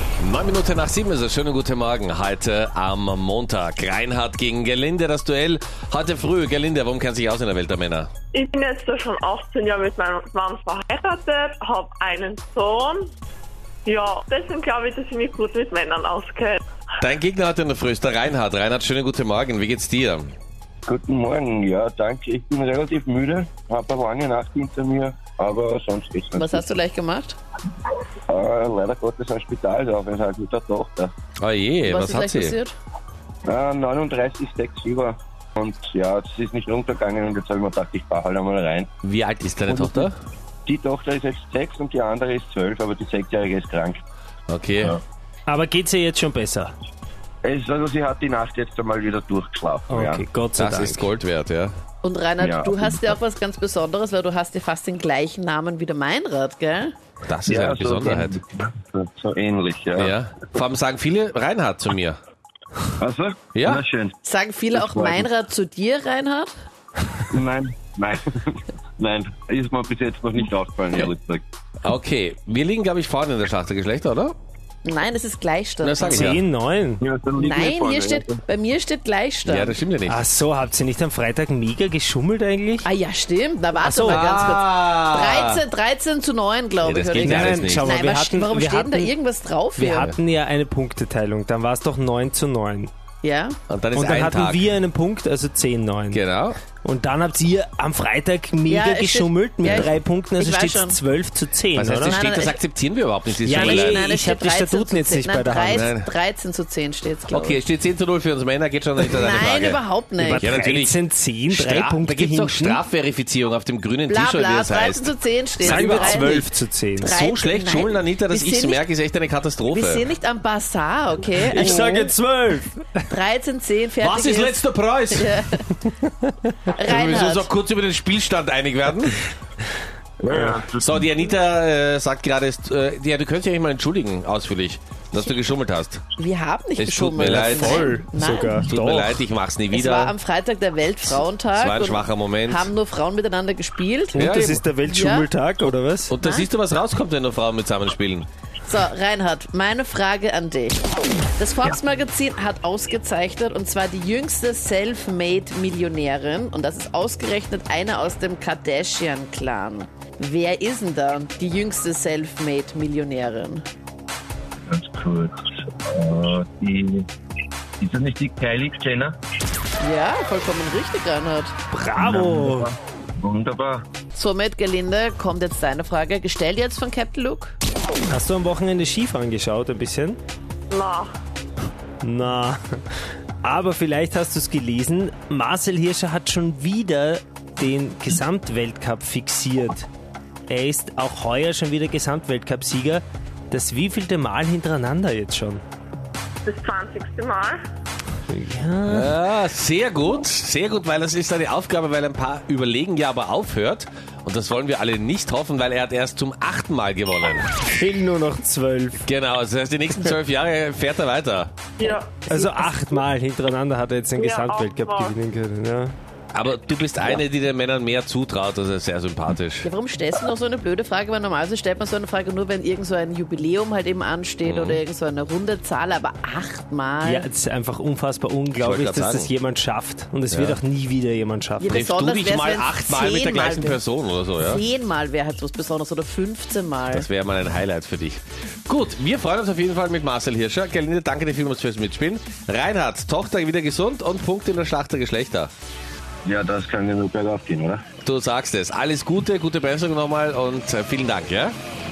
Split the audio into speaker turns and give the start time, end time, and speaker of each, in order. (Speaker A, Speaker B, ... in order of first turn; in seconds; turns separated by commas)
Speaker A: 0.2-8.1, Speaker B: 8.3-13.1, Speaker B: 13.8-16.6, Speaker A: 17.0-20.3, Speaker C: 20.9-26.6, Speaker D: 26.4-27.4, Speaker C: 28.3-31.1, Speaker A: 31.4-32.6, Speaker D: 31.8-32.7, Speaker C: 33.4-38.9, Speaker A: 39.0-40.1, Speaker C: 39.6-40.1, Speaker C: 40.6-44.0, Speaker A: 44.5-45.0, Speaker E: 45.5-46.7, Speaker C: 47.4-50.2, Speaker E: 49.9-51.1, Speaker A: 50.6-51.7, Speaker D: 52.0-56.9, Speaker C: 52.4-53.1, Speaker A: 57.3-58.4, Speaker C: 57.5-60.1, Speaker A: 60.0-62.2, Speaker C: 63.0-64.2, Speaker A: 63.5-63.8, Speaker D: 64.2-66.5, Speaker C: 64.7-65.3, Speaker C: 67.3-71.4, Speaker A: 71.8-74.3, Speaker D: 74.8-76.4, Speaker A: 75.8-76.4, Speaker E: 76.1-77.0, Speaker C: 77.0-78.4, Speaker D: 77.4-79.8, Speaker A: 79.4-80.2, Speaker E: 80.1-82.9, Speaker D: 82.8-90.1, Speaker E: 83.8-84.2, Speaker A: 84.0-85.6, Speaker A: 86.8-88.0, Speaker E: 87.2-89.1, Speaker E: 89.8-92.9, Speaker D: 93.2-93.6, Speaker A: 93.7-94.7, Speaker E: 93.9-96.2, Speaker A: 96.1-96.6, Speaker E: 96.8-102.2, Speaker D: 98.7-101.0, Speaker A: 99.6-99.9, Speaker A: 101.7-104.1, Speaker D: 102.0-102.6, Speaker E: 103.4-105.9, Speaker D: 103.5-107.6, Speaker A: 105.7-106.1, Speaker A: 107.3-109.8, Speaker D: 109.0-110.5, Speaker E: 110.2-112.8, Speaker A: 110.4-111.0, Speaker A: 111.5-116.4, Speaker D: 114.1-116.4, Speaker E: 115.6-117.1, Speaker A: 117.0-120.1, Speaker D: 117.0-118.8, Speaker D: 119.7-122.1, Speaker E: 121.4-123.1, Speaker A: 121.5-122.0, Speaker D: 123.1-125.6, Speaker A: 124.0-125.3, Speaker D: 126.7-127.5, Speaker A: 126.9-129.2, Speaker C: 130.2-131.2, Speaker E: 130.3-130.6, Speaker A: 130.8-136.0, Speaker D: 136.2-138.7, Speaker A: 136.8-137.9, Speaker E: 137.0-139.2, Speaker A: 138.6-140.1, Speaker D: 139.7-145.3, Speaker A: 141.5-142.7, Speaker E: 144.1-146.1, Speaker A: 144.2-144.7, Speaker A: 146.1-148.3, Speaker D: 146.2-146.5, Speaker D: 148.6-150.8, Speaker D: 151.4-163.6, Speaker C: 164.7-167.1, Speaker C: 167.8-169.2, Speaker D: 169.8-171.5, Speaker E: 171.7-172.7, Speaker C: 172.0-173.8, Speaker D: 174.1-177.6, Speaker E: 178.1-180.2, Speaker B: 180.7-181.1, Speaker E: 182.0-182.8, Speaker E: 183.4-189.9, Speaker E: 190.5-195.6, Speaker B: 196.4-197.6, Speaker E: 198.3-199.1, Speaker A: 198.8-207.5, Speaker E: 207.7-209.0, Speaker A: 209.0-211.5, Speaker B: 211.8-212.2, Speaker E: 212.3-215.9, Speaker D: 212.3-212.7, Speaker B: 214.2-215.1, Speaker A: 216.3-219.7, Speaker D: 219.6-227.3, Speaker A: 224.4-224.8, Speaker E: 227.0-231.7, Speaker A: 228.6-229.3, Speaker A: 230.3-230.6, Speaker D: 231.6-233.8, Speaker A: 231.7-234.6, Speaker D: 234.4-237.1, Speaker A: 236.9-245.5, Speaker C: 246.2-247.8, Speaker A: 248.0-251.5